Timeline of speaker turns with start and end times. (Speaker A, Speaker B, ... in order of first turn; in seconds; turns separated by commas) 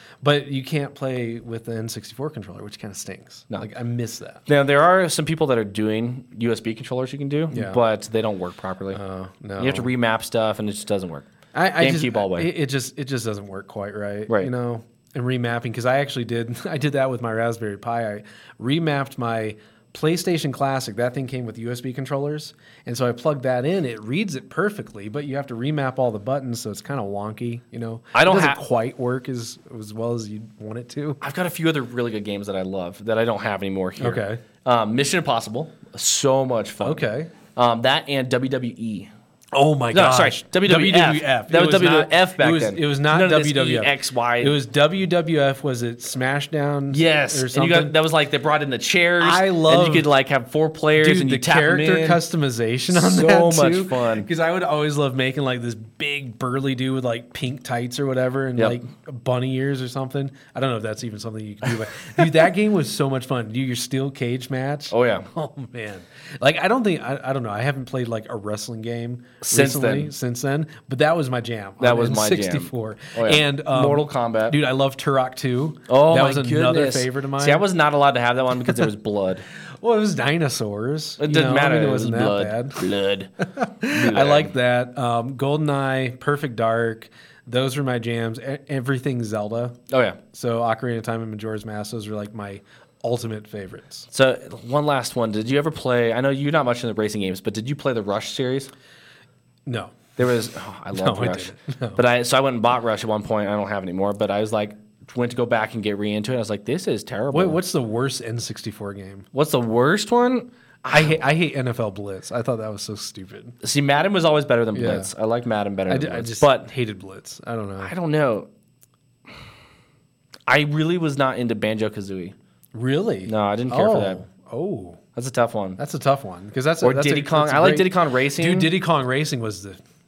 Speaker A: 0.2-4.4, Speaker B: 4.5-9.0, Speaker A: 7.5-7.8, Speaker A: 8.9-9.9, Speaker B: 9.6-11.3, Speaker A: 11.5-31.2, Speaker B: 11.8-12.5, Speaker B: 28.1-28.6, Speaker B: 31.2-39.1, Speaker A: 34.0-34.4, Speaker A: 36.8-37.3, Speaker A: 39.5-48.0, Speaker B: 39.9-44.6, Speaker B: 46.9-52.2, Speaker A: 49.2-50.1, Speaker A: 51.0-77.7, Speaker B: 52.9-54.3, Speaker B: 64.9-65.3, Speaker B: 69.4-70.1, Speaker B: 71.8-74.6, Speaker B: 75.9-79.5, Speaker A: 79.8-82.8, Speaker B: 81.2-83.3, Speaker A: 83.5-89.8, Speaker B: 83.9-84.5, Speaker B: 89.9-90.2, Speaker A: 90.3-94.1, Speaker B: 94.1-98.7, Speaker A: 99.7-100.1, Speaker B: 100.2-107.6, Speaker A: 100.9-102.0, Speaker A: 107.3-109.3, Speaker B: 109.3-111.2, Speaker A: 110.8-113.5, Speaker B: 113.6-116.7, Speaker A: 114.7-115.1, Speaker A: 115.9-117.9, Speaker B: 117.8-118.5, Speaker B: 120.5-122.3, Speaker A: 122.7-125.0, Speaker B: 123.2-124.2, Speaker B: 125.2-125.8, Speaker A: 125.8-129.8, Speaker B: 126.8-128.7